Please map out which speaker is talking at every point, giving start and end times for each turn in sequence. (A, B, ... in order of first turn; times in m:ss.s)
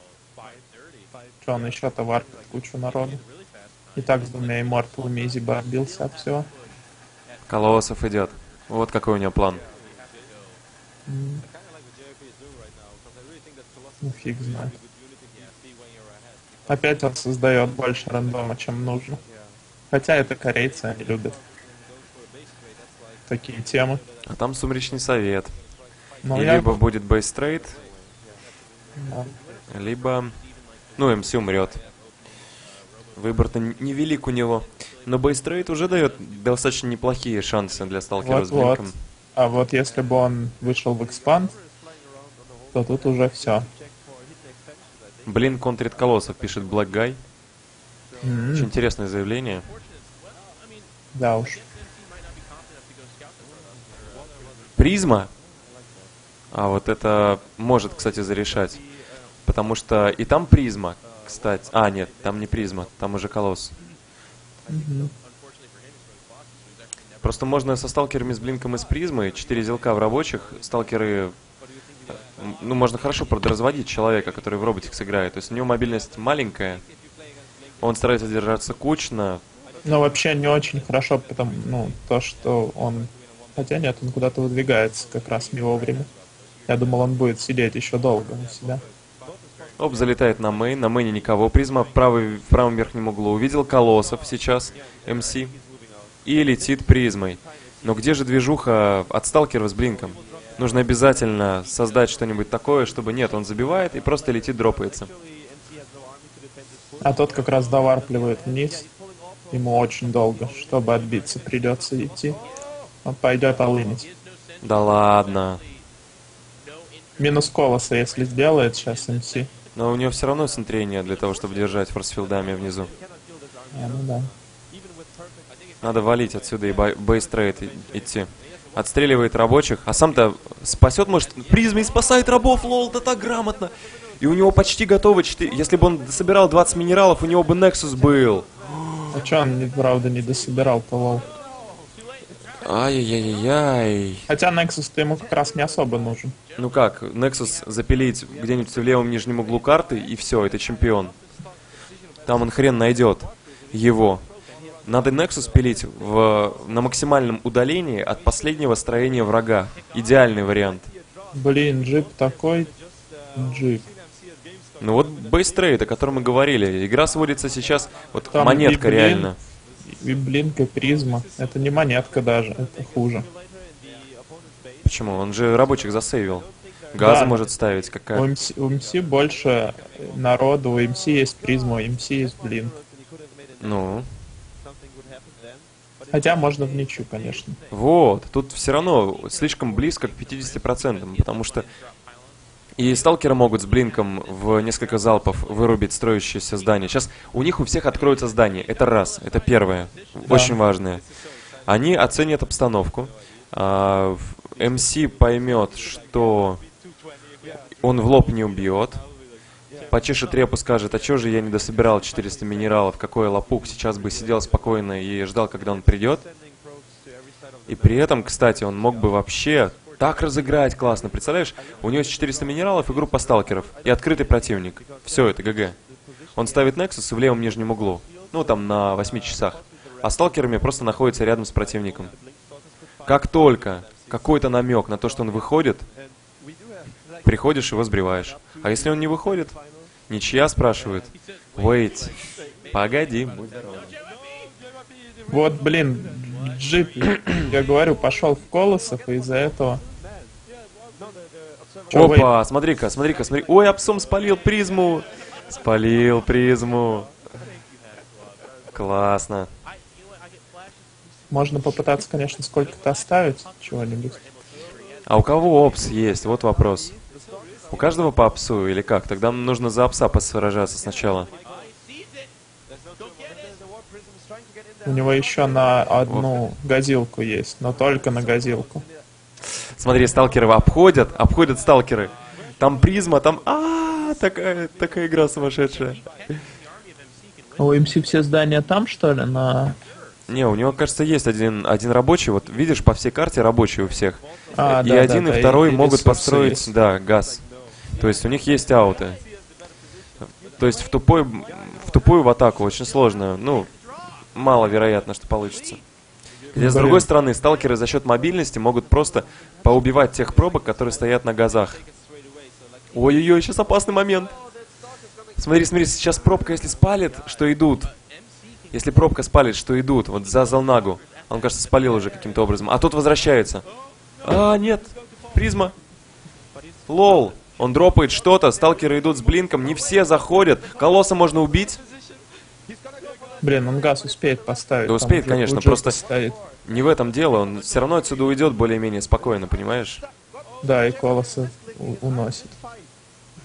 0:01.4-0:03.2 A
0:04.0-0:06.5 A
0:07.5-0:09.6 B
0:11.1-0:11.4 A
0:14.0-0:14.7 A
0:16.7-0:19.2 A
0:19.9-0:21.4 A
0:23.3-0:24.0 A
0:24.3-0:25.6 B
0:26.2-0:26.8 A
0:26.3-0:27.8 B
0:29.0-0:29.3 A
0:29.7-0:30.4 B
0:31.0-0:31.8 B
0:33.2-0:39.0 B
0:38.2-0:41.6 A
0:42.7-0:43.7 A
0:45.3-0:47.2 B
0:48.2-0:48.7 A
0:48.5-0:49.7 B
0:51.2-0:51.6 A
0:54.8-0:55.3 B
0:56.5-0:58.8 B
0:59.4-1:03.8 B
1:04.7-1:05.1 A
1:07.2-1:11.4 B
1:12.1-1:16.8 B
1:17.8-1:19.4 B
1:19.8-1:26.1 A
1:26.7-1:28.8 A
1:29.8-1:35.6 B
1:36.2-1:45.1 B
1:47.0-1:48.9 A
1:49.5-1:52.4 A
1:53.0-1:54.1 A
1:54.6-1:55.6 B
1:57.2-1:59.5 A
1:59.8-2:02.9 B
2:03.7-2:04.3 A
2:05.8-2:19.0 B
2:19.1-2:21.2 A
2:22.6-2:24.3 B
2:24.3-2:26.4 A
2:26.6-2:31.2 B
2:32.3-2:34.3 B
2:34.8-2:40.9 B
2:41.3-2:42.7 A
2:43.4-2:43.8 A
2:44.8-2:49.4 B
2:48.3-2:49.3 A
2:49.9-2:53.3 A
2:54.8-2:58.3 B
2:57.0-2:57.4 A
2:58.1-3:02.8 A
3:03.6-3:04.1 B
3:06.1-3:07.6 A
3:07.7-3:11.7 B
3:12.8-3:21.0 B
3:20.3-3:20.6 A
3:21.7-3:26.6 B
3:27.8-3:29.0 B
3:29.9-3:36.3 B
3:37.7-3:45.8 B
3:46.4-3:52.1 B
3:53.1-3:55.9 B
3:57.2-3:59.6 B
4:00.1-4:02.2 B
4:02.7-4:04.0 B
4:05.3-4:09.8 A
4:11.9-4:12.3 A
4:11.9-4:17.1 B
4:18.7-4:19.5 B
4:21.3-4:24.2 A
4:25.1-4:27.0 B
4:27.7-4:31.3 B
4:34.9-4:38.8 A
4:39.6-4:46.0 B
4:47.6-4:49.8 A
4:50.3-4:57.4 B
4:54.6-4:56.7 A
4:58.0-4:59.2 B
5:00.5-5:03.7 B
5:04.3-5:05.8 B
5:06.5-5:07.1 A
5:06.5-5:11.8 B
5:12.9-5:14.4 B
5:15.4-5:17.9 B
5:18.7-5:23.6 B
5:24.2-5:25.8 B
5:26.9-5:31.8 B
5:33.4-5:36.4 A
5:34.9-5:36.0 B
5:36.6-5:40.0 B
5:40.6-5:42.6 A